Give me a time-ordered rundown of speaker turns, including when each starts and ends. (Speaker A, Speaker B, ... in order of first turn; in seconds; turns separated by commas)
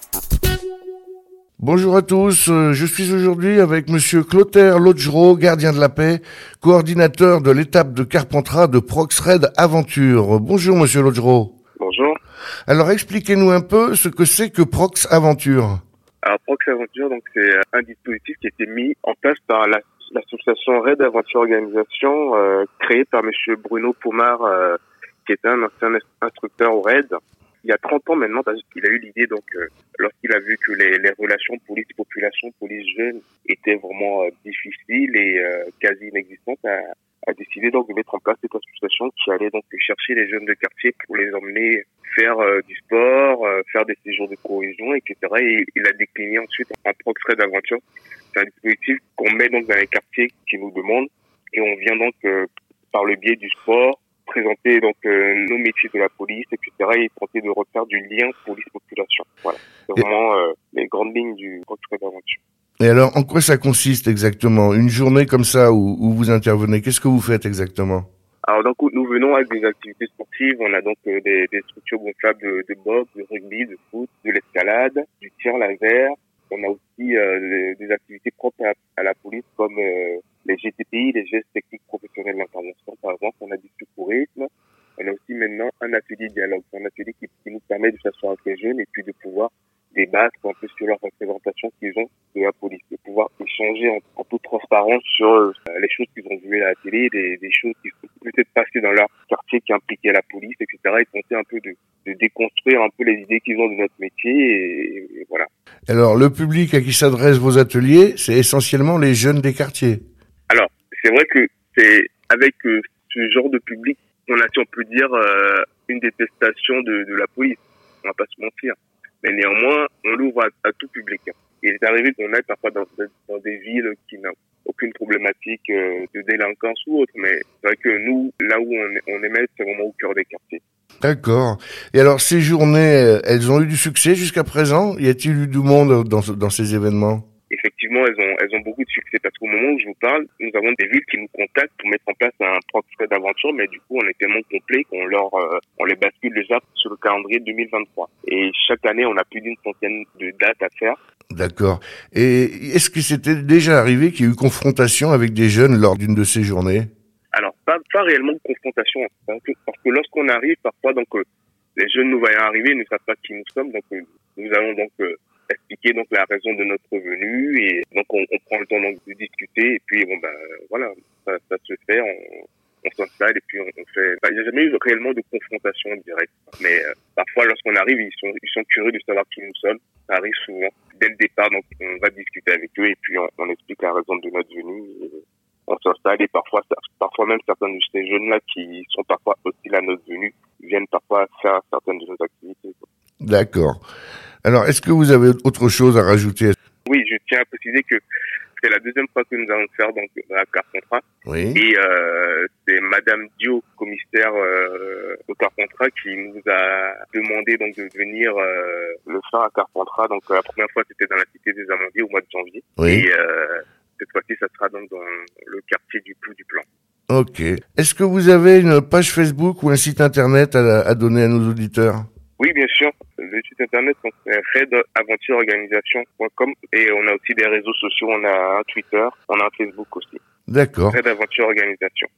Speaker A: 1.6-11.5, Speaker B: 11.8-12.2, Speaker A: 12.7-15.8, Speaker B: 16.2-47.8, Speaker B: 48.3-62.4, Speaker A: 62.8-68.1, Speaker B: 68.4-105.5, Speaker A: 105.9-110.0, Speaker B: 110.5-130.6, Speaker A: 131.0-137.2, Speaker B: 137.5-151.0, Speaker A: 151.3-156.9, Speaker B: 157.3-161.2, Speaker B: 161.8-192.8, Speaker A: 193.2-193.8, Speaker A: 194.4-196.5, Speaker B: 196.8-198.0, Speaker B: 198.6-216.7, Speaker A: 201.2-201.6, Speaker A: 212.8-213.1, Speaker A: 217.1-222.1, Speaker B: 222.4-230.2, Speaker A: 230.5-231.0, Speaker B: 230.9-232.1